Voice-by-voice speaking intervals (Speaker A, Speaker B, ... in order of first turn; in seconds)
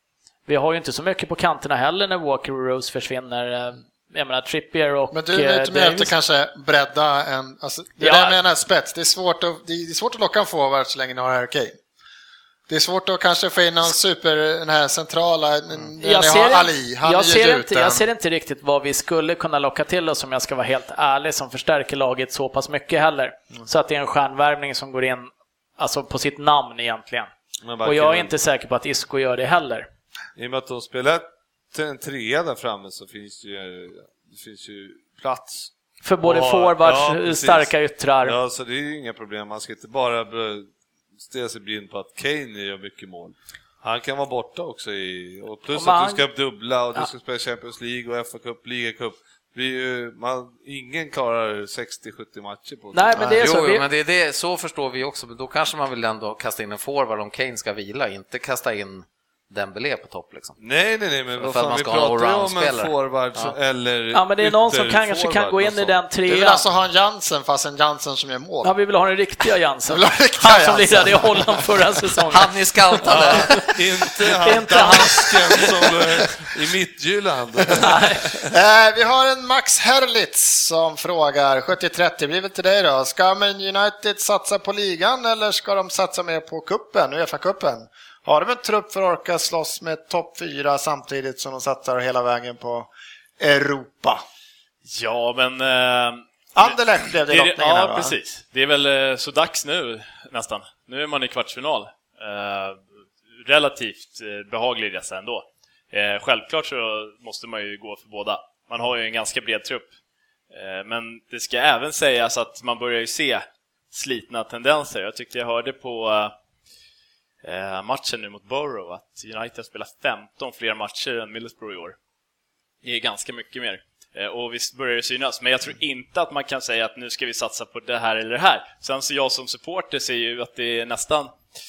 Speaker A: 0.5-6.1, 8.0-8.4, 16.0-27.3, 27.8-29.9, 36.0-38.4, 45.7-46.2, 52.9-53.8, 64.1-66.6, 68.6-72.5, 73.4-73.7, 74.4-75.7, 77.8-78.3
Speaker B: 5.1-11.8, 12.7-18.1, 66.3-68.7, 69.9-71.8, 78.5-94.2, 96.5-98.2
Speaker C: 27.6-28.3, 30.4-35.7, 36.2-37.7, 38.2-40.7, 41.2-53.4, 60.6-66.0, 73.0-78.5
Speaker D: 53.2-60.6, 61.4-63.5, 72.3-73.6
Speaker E: 94.8-102.8, 103.4-109.9, 110.5-116.3, 117.4-122.0, 122.8-131.3